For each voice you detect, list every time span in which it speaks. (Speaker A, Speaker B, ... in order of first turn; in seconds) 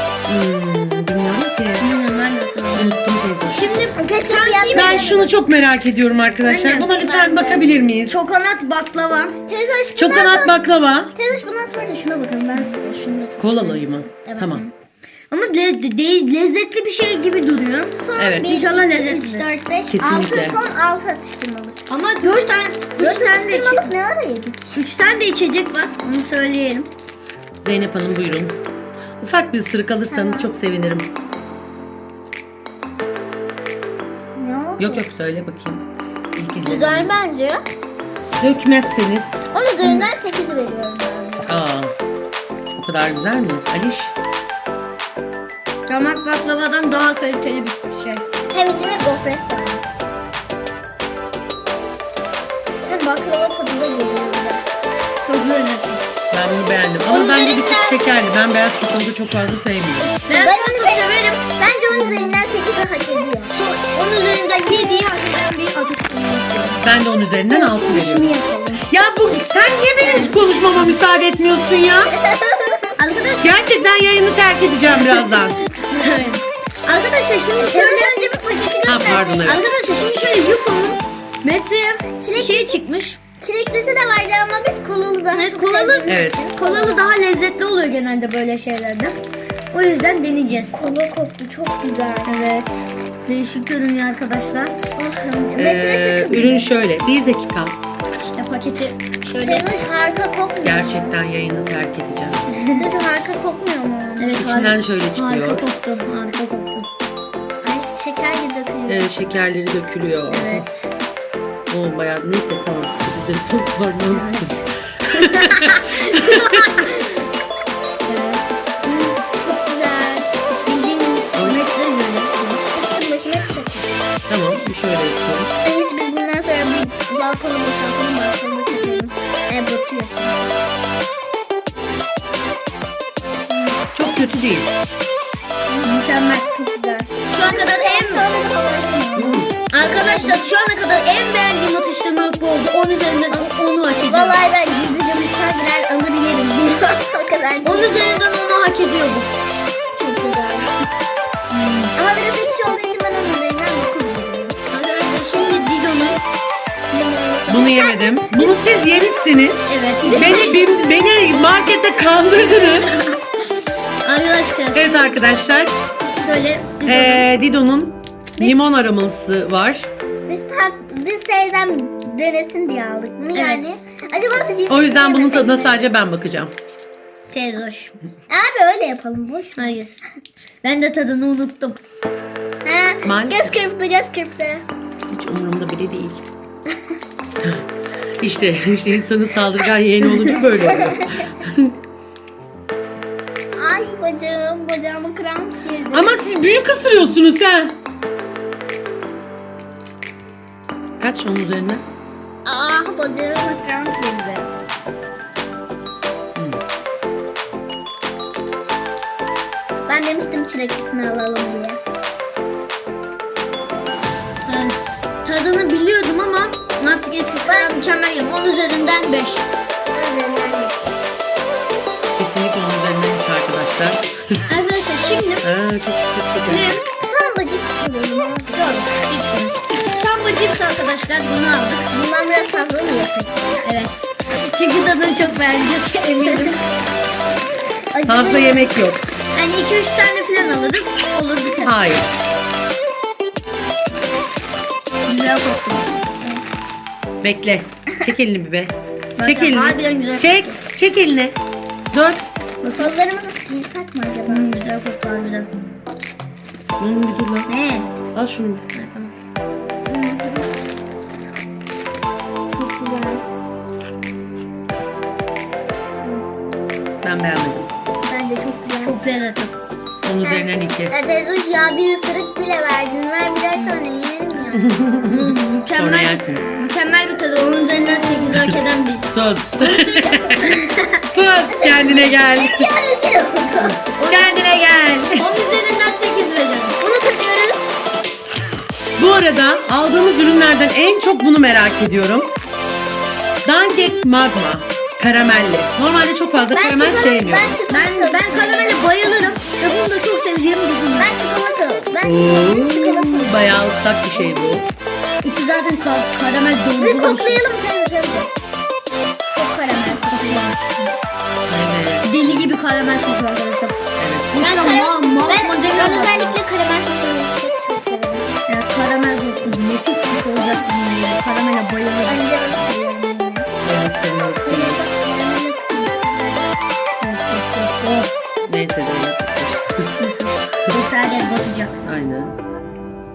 Speaker A: 0.3-1.9, 2.7-3.8, 4.7-8.2, 9.9-11.1, 13.4-14.6, 18.2-18.6, 19.9-20.6, 27.6-28.6, 29.2-31.1, 34.8-37.1, 38.4-39.3, 41.5-41.9, 42.8-44.1, 56.3-60.1, 66.8-68.3, 68.9-72.1, 73.4-75.6, 78.8-79.6, 86.0-86.5, 95.5-97.8, 100.6-102.4, 104.4-105.6, 108.9-110.7, 111.7-116.9, 124.3-125.5, 133.9-134.7, 139.2-139.5, 157.5-162.9, 164.7-165.8, 166.8-169.9, 174.7-176.5, 183.0-183.6, 185.1-186.2, 188.2-191.7, 195.9-197.7, 201.0-201.8, 206.3-206.6, 222.2-224.4, 225.4-226.8, 238.1-239.0, 241.6-242.1, 247.2-251.3, 251.9-252.2, 256.8-257.5, 258.1-258.6, 267.0-267.7, 270.0-271.0, 274.5-276.5, 279.1-280.4, 281.1-282.7, 283.6-285.3, 289.0-292.3, 293.4-297.6, 302.0-304.6, 311.4-312.5, 314.0-314.4, 323.6-324.8, 327.0-330.0, 331.8-332.3
Speaker B: 1.8-3.0, 3.5-5.3, 6.4-6.9, 8.1-9.3, 15.3-19.5, 21.9-23.9, 24.7-26.9, 39.8-40.1, 45.9-48.2, 55.2-56.0, 57.1-57.9, 60.3-62.4, 63.5-66.8, 73.0-73.6, 75.9-83.2, 85.3-89.2, 89.7-90.8, 92.2-94.8, 98.2-99.7, 104.2-106.9, 110.3-110.9, 114.1-114.6, 115.4-116.4, 118.0-118.6, 120.6-122.6, 135.8-136.6, 137.3-138.3, 139.7-144.4, 147.6-149.3, 151.5-151.9, 154.7-156.2, 158.3-158.6, 159.7-160.6, 164.0-165.1, 166.2-167.3, 173.3-173.7, 177.3-177.9, 179.6-180.0, 180.6-181.8, 214.4-219.4, 224.5-225.4, 228.5-231.9, 233.6-236.6, 239.3-241.8, 245.1-246.0, 249.2-250.5, 252.6-252.9, 254.3-255.5, 257.4-257.9, 258.7-259.1, 268.8-269.5, 273.5-273.8, 275.1-280.6, 284.0-284.4, 285.2-286.8, 297.7-301.1, 305.2-307.4, 310.1-310.9, 312.0-313.8, 314.3-316.4, 318.5-322.3, 330.0-331.8
Speaker C: 4.0-5.3, 6.9-7.7, 9.5-10.6, 11.1-14.7, 17.9-24.8, 30.1-30.5, 34.4-35.0, 36.6-37.6, 39.5-41.5, 48.5-49.8, 52.9-54.6, 60.3-61.0, 61.6-63.5, 67.5-68.8, 72.2-72.8, 77.5-79.7, 82.2-82.8, 83.4-87.2, 90.7-92.5, 95.0-96.7, 99.4-101.2, 102.7-104.3, 107.6-109.1, 118.8-120.3, 122.7-123.9, 125.6-130.5, 133.5-133.8, 136.6-140.4, 144.1-147.9, 149.9-150.7, 151.9-154.6, 155.3-155.7, 156.9-158.2, 160.1-160.5, 170.3-175.9, 178.3-179.8, 182.6-184.6, 193.6-196.2, 202.4-204.5, 209.9-211.8, 217.4-217.8, 219.9-220.9, 226.5-228.7, 231.9-233.6, 237.9-238.8, 252.7-254.4, 259.9-260.5, 262.5-263.2, 268.0-268.9, 270.2-274.7, 281.5-283.8, 286.8-287.7, 296.5-298.8, 301.0-303.5, 306.8-308.3, 309.3-310.5, 314.4-318.3, 322.0-323.5, 324.4-326.5